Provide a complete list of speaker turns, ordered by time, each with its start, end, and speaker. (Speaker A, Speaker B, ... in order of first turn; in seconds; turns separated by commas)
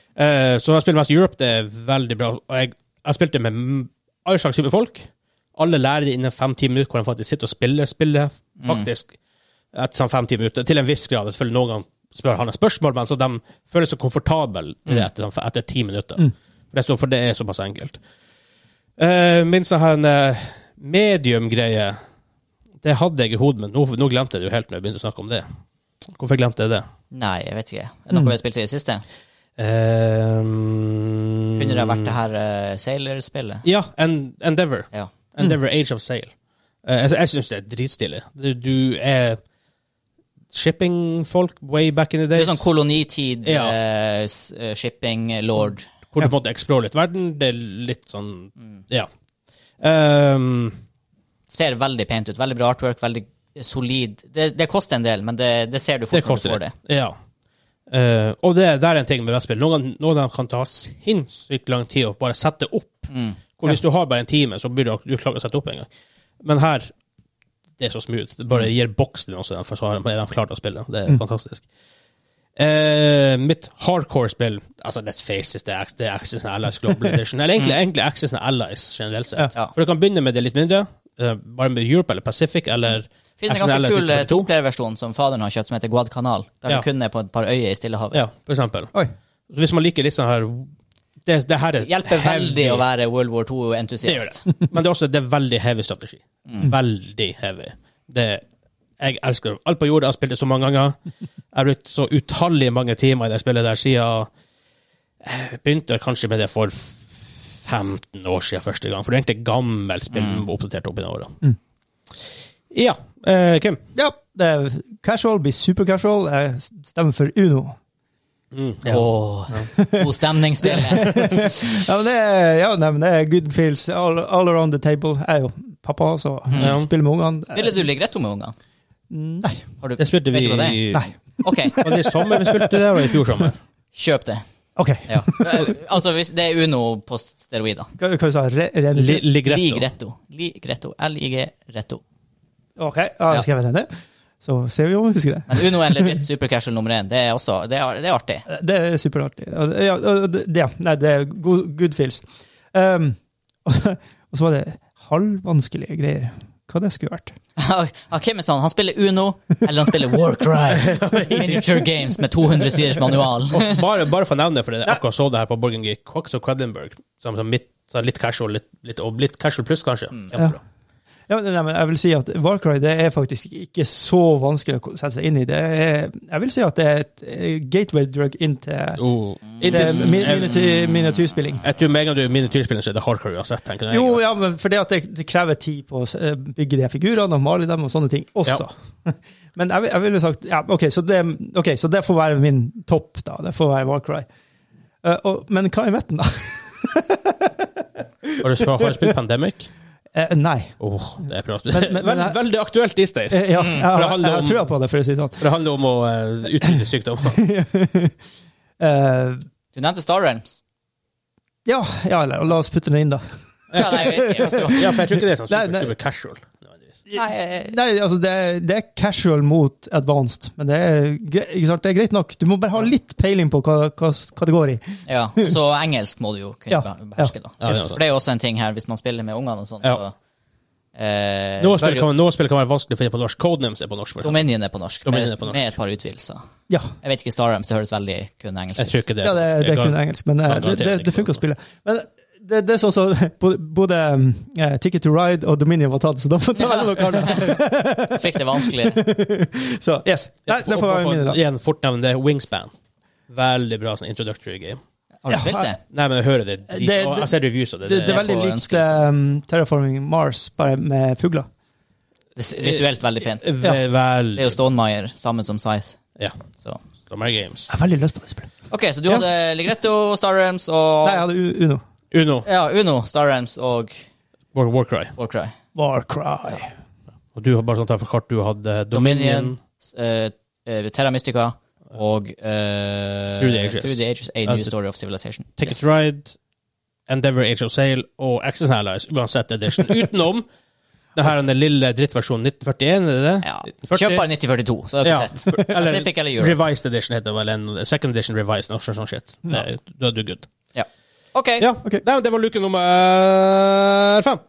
Speaker A: 0.2-9.1, Speaker B: 8.6-8.9, Speaker A: 9.7-18.0, Speaker A: 19.0-22.0, Speaker A: 22.8-25.4, Speaker A: 26.1-26.9, Speaker B: 27.1-29.0, Speaker A: 29.6-32.0, Speaker B: 31.6-33.6, Speaker A: 33.6-36.3, Speaker A: 36.9-39.4, Speaker A: 40.5-42.7, Speaker B: 42.3-45.9, Speaker A: 43.4-43.8, Speaker A: 46.1-49.1, Speaker A: 49.8-50.8, Speaker B: 51.5-56.7, Speaker A: 56.1-57.1, Speaker A: 57.9-65.9, Speaker B: 63.1-63.4, Speaker A: 66.4-66.9, Speaker A: 67.8-71.6, Speaker A: 72.6-84.5, Speaker B: 83.4-88.2, Speaker A: 88.1-88.9, Speaker A: 89.5-90.7, Speaker A: 91.2-92.8, Speaker B: 91.8-94.4, Speaker A: 94.0-98.4, Speaker A: 99.0-101.0, Speaker A: 101.5-104.3, Speaker A: 105.2-111.3, Speaker B: 110.1-110.5, Speaker A: 112.7-113.8, Speaker C: 114.0-117.8, Speaker A: 118.5-119.7, Speaker B: 118.8-121.5, Speaker C: 119.6-120.1, Speaker C: 120.6-127.9, Speaker B: 126.5-126.8, Speaker A: 126.5-126.9, Speaker B: 127.5-128.5, Speaker C: 129.1-129.7, Speaker B: 129.8-130.9, Speaker A: 130.0-131.1, Speaker C: 130.9-132.8, Speaker B: 131.4-131.8, Speaker A: 131.8-133.6, Speaker B: 133.9-134.4, Speaker C: 134.8-135.7, Speaker B: 135.1-137.9, Speaker C: 138.0-139.2, Speaker A: 138.9-139.9, Speaker B: 139.4-142.0, Speaker C: 142.8-143.9, Speaker C: 144.4-146.2, Speaker B: 145.5-148.4, Speaker C: 148.5-157.3, Speaker B: 157.6-163.8, Speaker A: 160.8-161.6, Speaker A: 163.5-170.6, Speaker C: 171.3-179.0, Speaker A: 179.0-180.6, Speaker B: 179.5-181.2, Speaker C: 179.6-181.6, Speaker A: 181.6-184.2, Speaker C: 183.9-194.3, Speaker C: 195.0-197.7, Speaker C: 198.2-198.9, Speaker A: 198.4-199.7, Speaker C: 200.1-200.8, Speaker A: 200.8-204.8, Speaker C: 201.7-202.4, Speaker C: 203.3-205.5, Speaker B: 203.6-203.9, Speaker A: 205.4-207.4, Speaker C: 207.2-208.1, Speaker C: 208.8-209.4, Speaker B: 209.7-210.6, Speaker C: 211.6-215.9, Speaker A: 213.7-217.0, Speaker B: 213.7-214.9, Speaker C: 217.1-225.5, Speaker B: 217.1-217.8, Speaker B: 225.1-230.1, Speaker C: 226.7-227.3, Speaker A: 227.6-228.0, Speaker B: 230.9-232.1, Speaker A: 231.6-234.5, Speaker B: 234.2-236.4, Speaker A: 235.0-235.7, Speaker B: 237.0-239.0, Speaker A: 238.8-241.4, Speaker C: 239.2-251.4, Speaker B: 246.6-249.0, Speaker A: 250.5-252.7, Speaker A: 253.3-254.8, Speaker B: 255.2-255.8, Speaker C: 255.3-255.7, Speaker A: 255.9-258.3, Speaker C: 256.7-261.5, Speaker B: 258.0-259.1, Speaker B: 262.4-263.5, Speaker A: 262.6-264.6, Speaker B: 264.3-266.0, Speaker B: 266.5-266.8, Speaker A: 267.1-267.7, Speaker C: 267.7-268.5, Speaker B: 268.7-271.2, Speaker C: 271.0-271.8, Speaker A: 272.1-272.5, Speaker B: 272.4-274.0, Speaker A: 274.5-275.1, Speaker B: 275.2-275.5, Speaker C: 275.7-276.7, Speaker A: 277.4-279.6, Speaker B: 278.9-285.8, Speaker A: 283.4-284.7, Speaker A: 285.6-286.3, Speaker A: 287.1-290.4, Speaker A: 291.1-294.2, Speaker B: 293.4-296.6, Speaker A: 295.0-300.5, Speaker C: 295.5-295.9, Speaker B: 300.7-301.7, Speaker A: 301.6-304.4